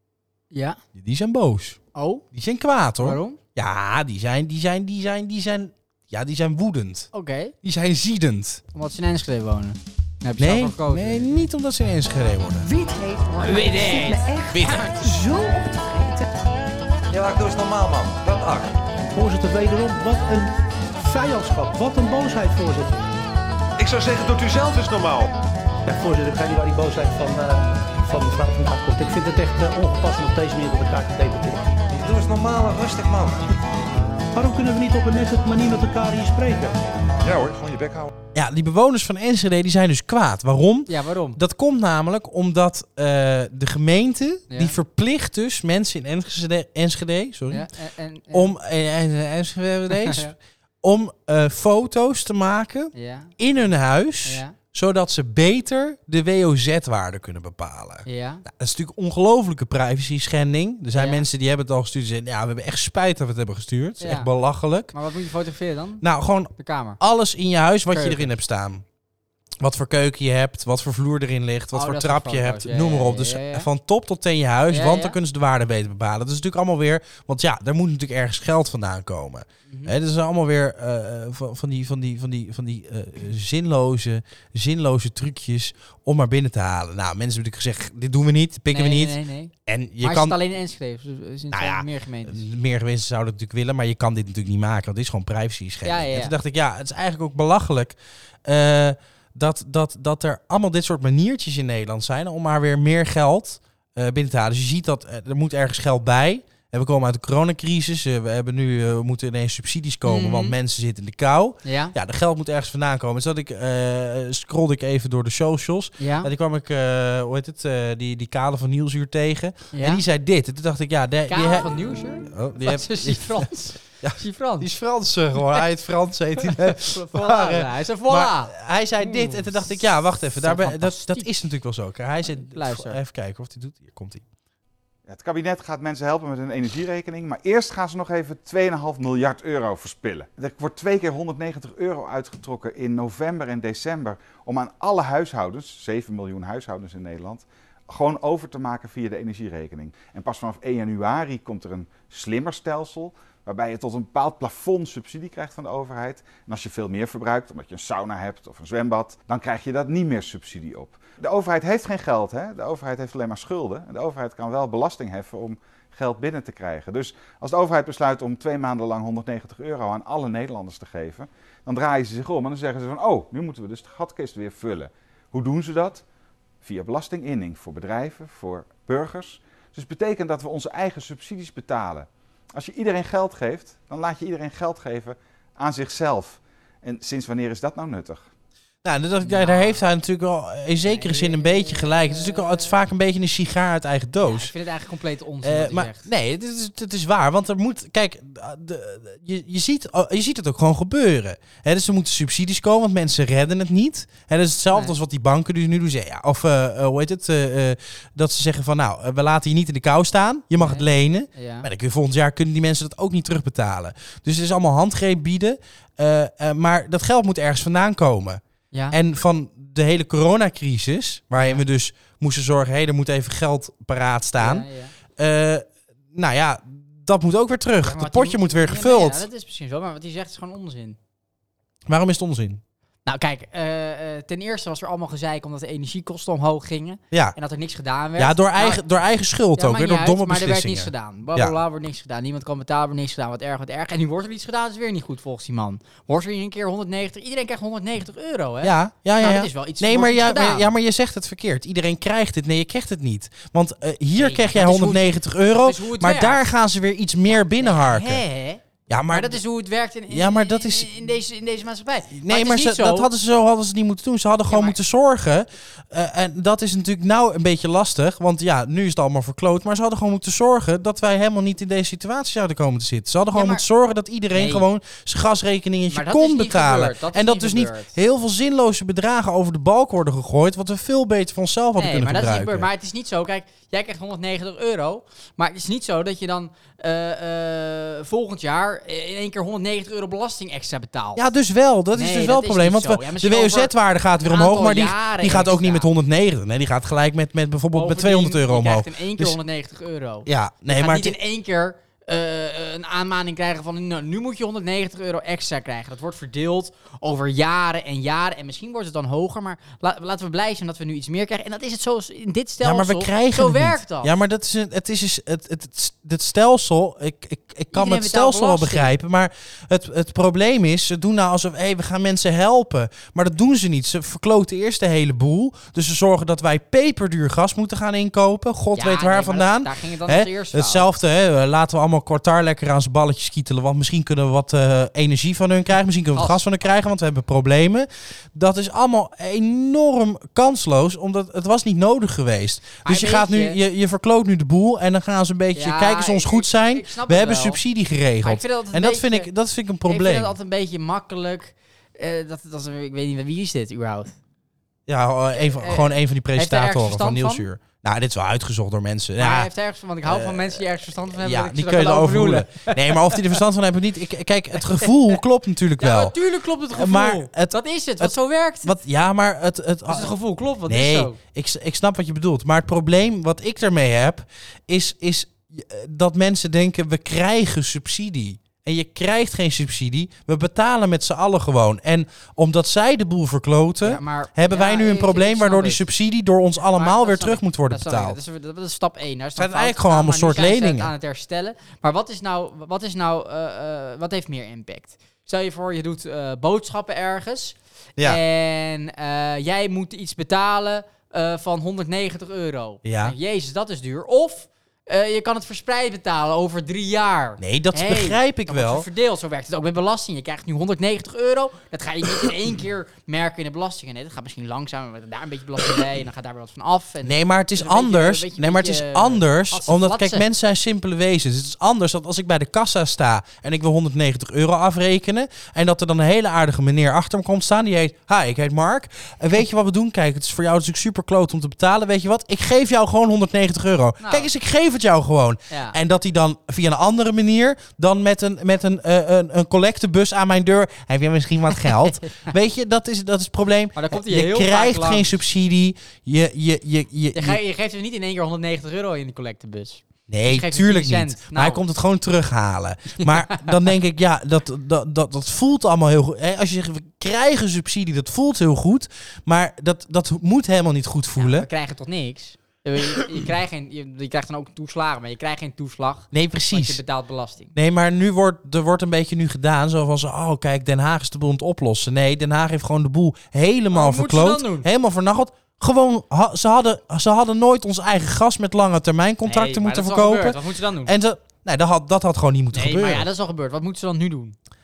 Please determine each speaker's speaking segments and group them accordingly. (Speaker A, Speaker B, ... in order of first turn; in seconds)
Speaker A: 0.5-0.8, 1.9-2.2, 3.0-3.4, 7.1-7.5, 8.7-11.3, 13.4-14.3, 40.9-41.4, 44.5-44.8, 47.5-48.5, 49.9-50.3, 52.9-53.3, 54.2-54.5, 58.0-58.4, 60.9-61.2, 64.0-64.3, 64.9-66.0, 66.6-67.0, 67.9-68.3, 71.7-73.7, 74.7-75.2, 88.7-92.4, 95.8-96.3, 110.0-110.5, 111.6-111.9, 116.0-116.3, 119.7-120.0, 121.3-124.7, 126.4-131.3, 132.3-133.0, 189.2-189.8, 190.8-192.8, 194.2-196.1, 210.6-211.7, 218.7-219.0, 221.4-221.6, 224.4-224.9, 227.8-231.0, 233.1-238.8, 239.6-250.7, 254.2-256.5, 257.6-263.1, 264.5-264.8, 273.3-273.6, 274.3-274.6, 275.9-277.9, 281.8-291.3, 291.9-295.9, 297.7-314.1, 317.7-318.9, 328.7-330.9, 336.1-336.4, 342.8-343.6, 345.5-347.6, 348.2-349.3, 349.9-354.1, 355.4-357.4, 359.2-363.3, 364.8-365.1, 365.8-368.7, 369.9-371.2, 383.8-385.8, 386.7-420.2, 434.0-434.3, 435.5-435.8, 442.0-442.3, 443.8-445.2, 447.1-451.6, 453.0-453.5, 461.1-467.5, 473.7-474.7, 479.3-480.9, 482.5-484.4
Speaker B: 0.9-1.8, 2.3-7.1, 7.6-8.6, 10.4-12.7, 14.5-15.1, 38.3-47.7, 48.3-64.9, 66.0-68.8, 69.6-90.4, 91.5-121.7, 122.2-134.2, 188.8-194.5, 195.4-229.2, 231.9-232.6, 237.1-237.3, 238.2-241.6, 248.6-258.2, 258.9-259.4, 260.1-260.9, 262.1-282.7, 291.1-299.4, 300.2-301.2, 312.6-350.3, 354.9-359.5, 360.1-366.1, 366.7-370.1, 370.6-388.2, 389.4-390.9, 402.8-403.1, 407.4-408.9, 417.0-447.4, 450.1-461.5, 466.1-466.8, 467.5-483.1
Speaker C: 12.6-16.3
Speaker D: 17.1-18.7, 23.8-25.3, 31.9-33.4, 37.2-38.1
Speaker E: 19.1-23.1, 25.9-31.7, 34.3-36.8
Speaker F: 135.1-176.0, 176.6-188.3